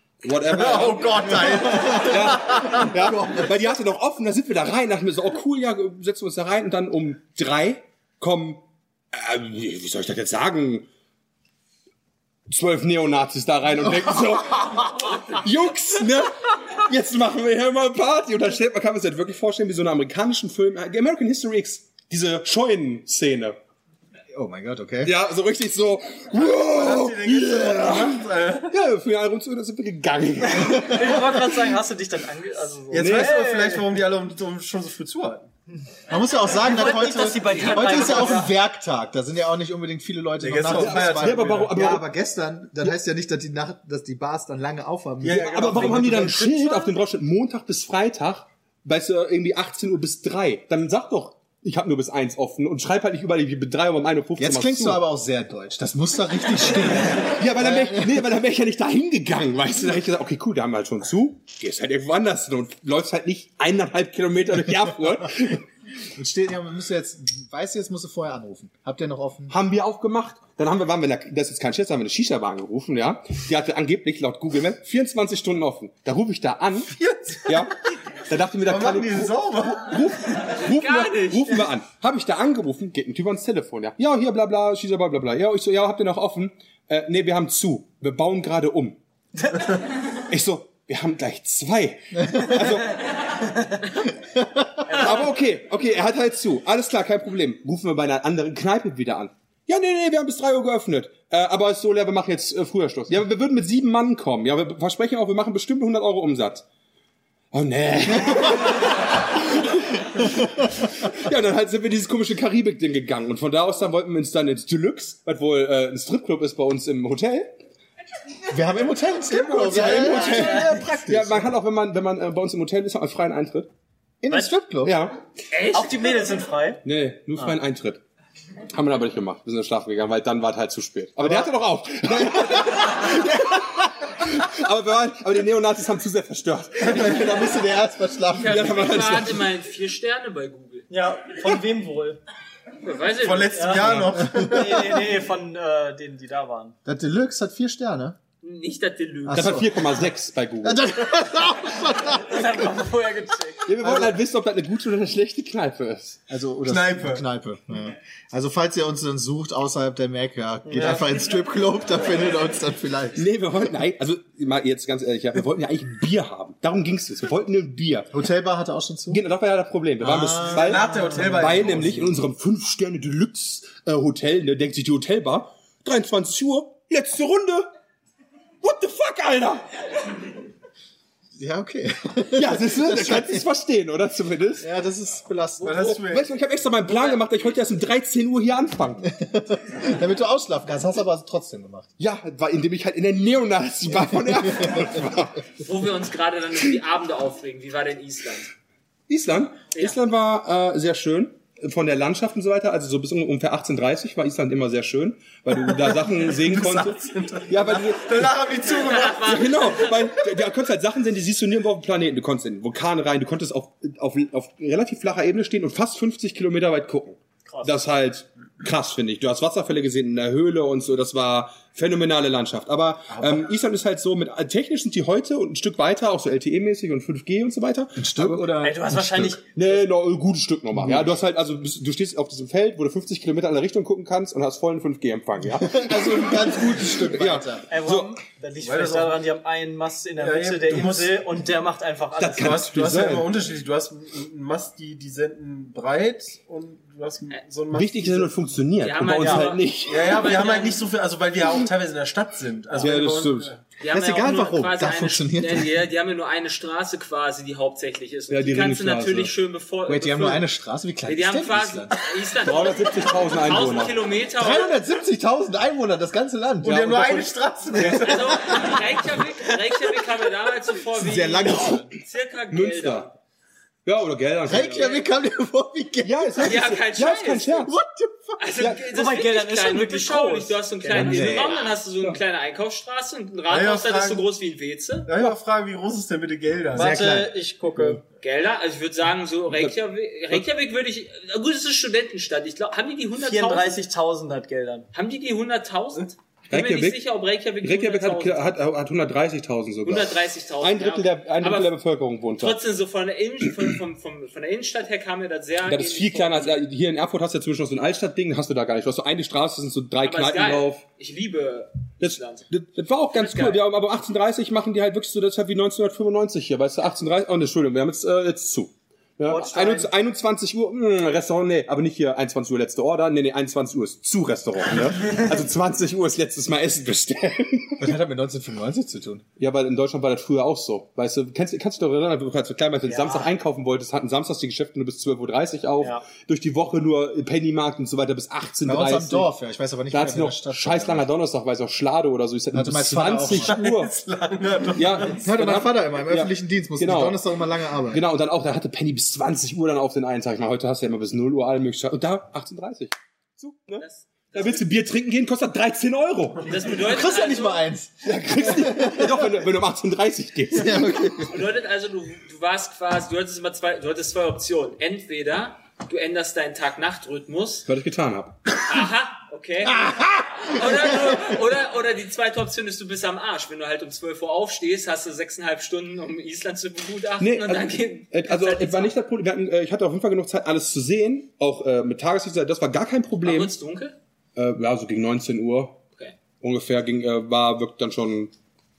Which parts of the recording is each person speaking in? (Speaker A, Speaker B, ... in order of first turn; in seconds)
Speaker A: 0.2-10.9, 12.5-23.6, 25.0-31.3, 33.0-33.4, 40.7-42.0, 45.3-55.0, 57.1-65.6, 69.5-76.9, 77.5-89.0, 90.3-92.9, 94.9-106.6, 107.5-117.5, 119.5-123.7, 124.8-125.2, 126.8-128.0, 128.7-137.5, 138.4-139.4, 149.3-150.8, 153.7-156.2, 163.2-168.1, 169.1-177.7, 178.6-179.7, 182.3-184.7, 185.7-189.0, 192.0-195.4, 199.1-208.4, 209.2-238.2, 242.2-243.3, 247.7-250.1, 252.8-253.5, 258.3-259.3, 262.4-263.9, 272.5-273.1, 273.8-275.0, 276.0-277.7, 278.6-278.8, 280.9-282.2, 289.5-289.7, 296.5-297.0, 297.6-302.6, 305.6-310.8, 312.0-327.9, 329.4-339.3, 339.9-343.9, 344.7-347.2, 347.9-356.6, 358.0-361.1, 367.7-368.7, 369.7-370.2, 377.2-383.5, 384.4-385.8, 386.4-388.3
Speaker B: 0.4-2.7, 26.4-28.7, 32.9-35.5, 40.4-41.7, 45.2-46.4, 76.9-77.7, 78.6-80.0, 119.5-120.8, 143.2-145.1, 156.6-157.2, 170.4-172.1, 185.6-186.3, 205.5-209.4, 238.6-239.2, 240.2-241.1, 242.3-248.4, 249.9-253.6, 266.6-268.8, 283.5-284.2, 285.1-287.0, 343.4-345.2
Speaker C: 1.3-3.5, 24.3-25.1, 36.1-46.3, 54.4-58.3, 66.1-69.5, 94.3-94.7, 118.5-121.5, 124.2-125.0, 131.2-133.7, 136.8-139.3, 144.2-144.6, 146.8-148.2, 149.2-150.0, 150.6-152.7, 153.8-154.1, 156.3-163.2, 168.1-169.2, 170.0-172.0, 181.3-183.5, 184.6-186.0, 189.0-191.9, 227.9-229.3, 230.7-231.1, 235.4-237.6, 253.9-255.7, 259.9-261.9, 264.4-268.6, 270.9-271.9, 274.4-276.7, 277.7-278.4, 280.9-281.6, 286.7-287.3, 327.8-329.2, 338.6-341.1, 342.5-343.6, 345.2-348.0, 356.7-359.4, 360.5-361.4
Speaker D: 30.5-33.9, 36.5-38.5, 45.5-46.9, 125.7-126.8, 140.9-142.2, 143.5-146.8, 152.0-153.7, 160.7-161.0, 228.6-229.8, 237.7-242.6, 249.2-249.4, 278.9-281.3, 286.7-288.0, 293.2-294.9, 319.2-319.9, 332.9-333.3
Speaker E: 80.5-81.7, 125.5-126.2, 138.3-140.9, 142.8-144.0, 148.4-149.6, 186.8-187.7, 195.6-198.5, 208.6-210.3, 248.8-250.8, 253.8-260.5, 261.1-264.8, 268.0-273.1, 274.6-275.0, 276.4-277.7, 278.4-285.1, 288.2-293.8, 294.9-298.4, 299.8-301.7, 302.4-306.6, 310.0-312.5, 313.1-313.6, 353.8-354.7, 356.4-357.6, 361.2-367.7, 368.6-378.9, 383.2-383.9